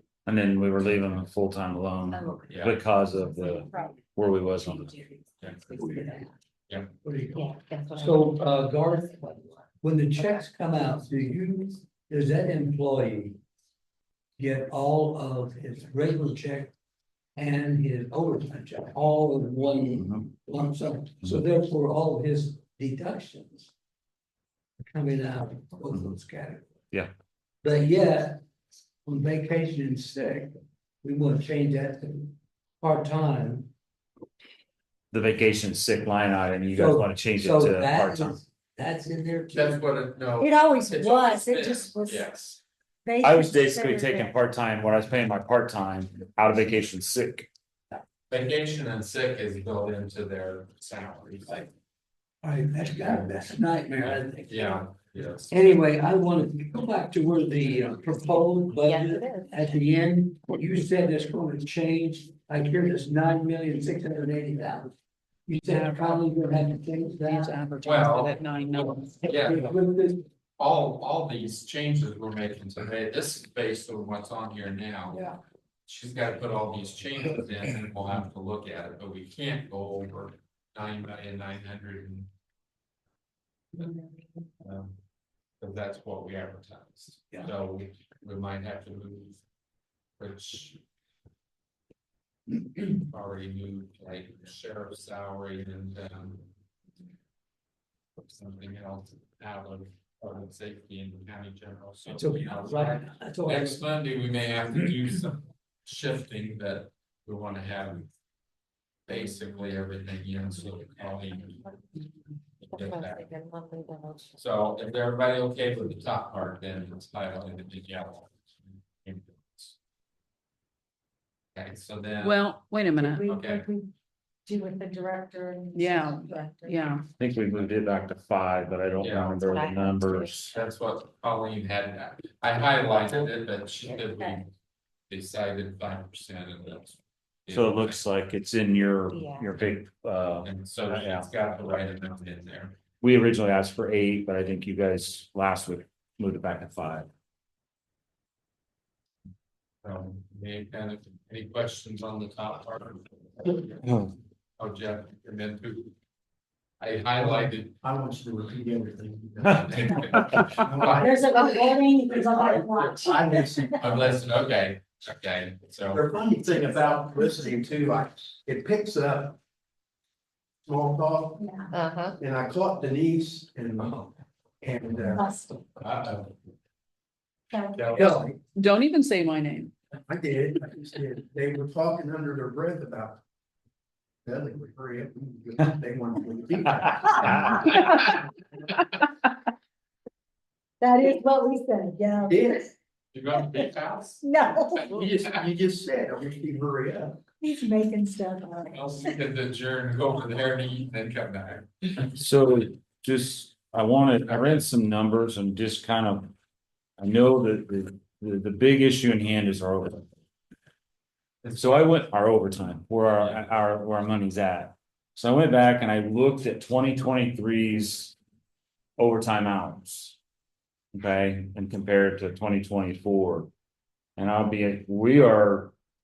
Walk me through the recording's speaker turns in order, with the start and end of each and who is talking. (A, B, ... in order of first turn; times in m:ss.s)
0:00.3-0:05.0 A
0:02.2-0:02.6 B
0:02.5-0:02.8 C
0:05.4-0:05.8 C
0:05.7-0:06.3 B
0:05.8-0:06.2 D
0:07.0-0:13.4 D
0:07.3-0:08.6 B
0:14.4-0:16.7 D
0:17.4-0:23.7 D
0:24.8-0:26.8 D
0:27.6-0:28.4 D
0:29.0-0:30.5 D
0:31.0-0:33.7 D
0:35.1-0:38.4 A
0:36.7-0:39.8 D
0:39.5-0:42.6 C
0:40.4-0:42.3 E
0:43.0-0:44.3 E
0:43.2-0:47.5 A
0:48.3-0:51.6 C
0:52.4-0:54.8 D
0:54.0-0:55.7 C
0:55.5-1:04.9 D
0:58.8-0:59.8 B
1:05.5-1:07.5 D
1:05.6-1:06.3 F
1:07.2-1:09.2 F
1:07.8-1:08.4 C
1:09.2-1:10.2 D
1:09.2-1:09.7 C
1:10.6-1:15.3 C
1:15.9-1:22.3 C
1:23.8-1:24.0 C
1:24.6-1:25.0 C
1:25.6-1:29.4 C
1:30.2-1:30.8 C
1:32.8-1:36.5 C
1:38.2-1:48.1 C
1:42.2-1:43.8 D
1:49.1-1:51.7 C
1:52.6-1:53.3 C
1:52.7-1:54.4 B
1:54.4-1:59.7 C
2:01.6-2:02.5 C
2:02.2-2:03.3 F
2:03.0-2:03.9 E
2:03.2-2:03.7 C
2:04.5-2:06.9 E
2:05.7-2:07.0 F
2:07.2-2:10.5 A
2:09.0-2:09.6 C
2:09.4-2:10.4 B
2:10.5-2:14.5 C
2:14.1-2:14.4 E
2:15.1-2:18.0 C
2:17.5-2:21.3 A
2:19.1-2:19.6 B
2:20.4-2:22.8 C
2:23.0-2:27.1 A
2:29.8-2:33.9 C
2:34.6-2:35.9 C
2:36.8-2:37.8 C
2:37.2-2:41.2 G
2:39.4-2:41.6 C
2:41.0-2:43.8 E
2:42.2-2:43.2 C
2:43.0-2:44.1 G
2:43.8-2:46.0 C
2:45.9-2:49.4 G
2:50.6-2:51.5 G
2:51.4-2:51.7 E
2:51.7-2:52.2 B
2:52.2-2:55.3 G
2:55.0-2:55.6 E
2:55.8-2:56.3 C
2:57.5-2:57.9 E
2:57.8-2:58.2 C
2:57.9-2:58.3 D
2:58.6-2:59.7 F
3:00.1-3:03.2 G
3:04.2-3:07.9 G
3:10.8-3:12.7 E
3:12.3-3:12.6 G
3:13.1-3:15.4 C
3:14.2-3:14.9 E
3:14.9-3:17.2 G
3:17.4-3:18.8 E
3:18.7-3:22.1 C
3:22.1-3:26.3 A
3:27.0-3:30.1 A
3:31.4-3:31.7 C
3:31.6-3:38.2 A
3:33.2-3:33.5 C
3:39.0-3:40.2 A
3:40.9-3:43.5 A
3:44.2-3:45.7 A